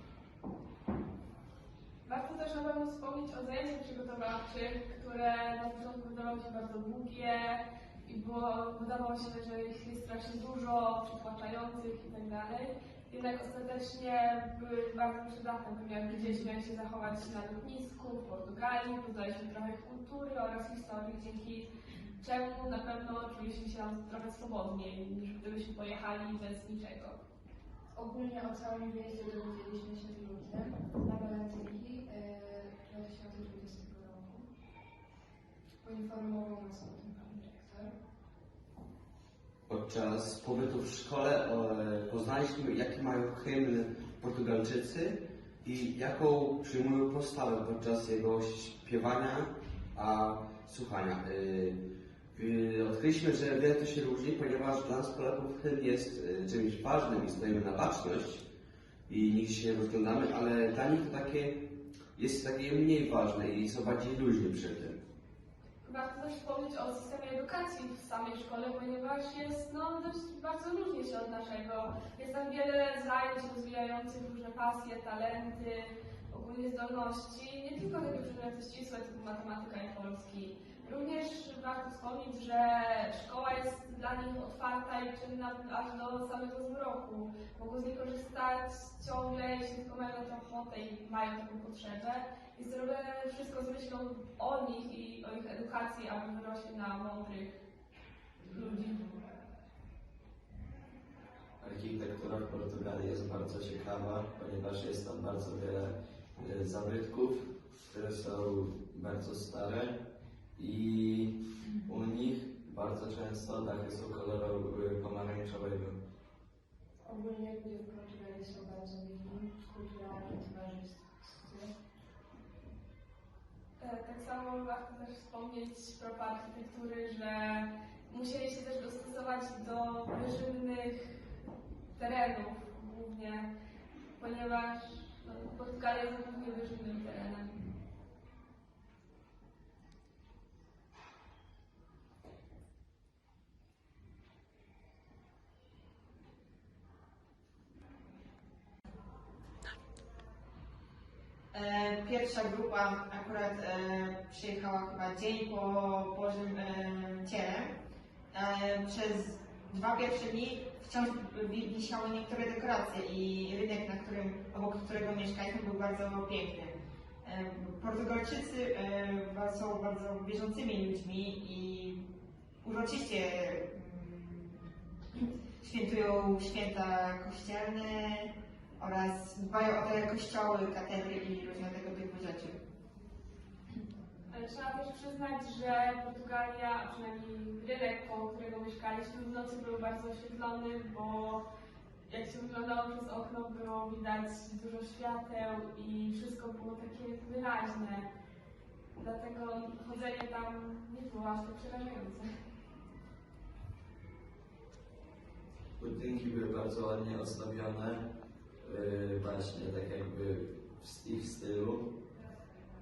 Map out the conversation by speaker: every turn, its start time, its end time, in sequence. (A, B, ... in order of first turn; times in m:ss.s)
0:02.0-0:27.2 A
0:27.9-0:34.5 B
0:35.8-0:38.0 B
0:39.7-0:51.8 C
0:52.3-0:58.4 C
0:59.1-1:01.6 C
1:02.2-1:05.0 C
1:05.8-1:37.6 A
1:38.4-1:39.1 A
1:41.6-1:50.0 D
1:50.6-1:56.0 D
1:57.0-2:01.7 B
2:03.8-2:11.1 A
2:12.0-2:13.5 A
2:14.2-2:17.6 A
2:31.5-2:37.7 E
2:38.3-2:52.0 E
2:52.6-2:54.6 E
2:55.6-3:02.6 E
3:04.3-3:11.4 A
3:12.1-3:18.1 A
3:19.0-3:22.3 A
3:25.8-3:28.1 D
3:28.6-3:31.9 D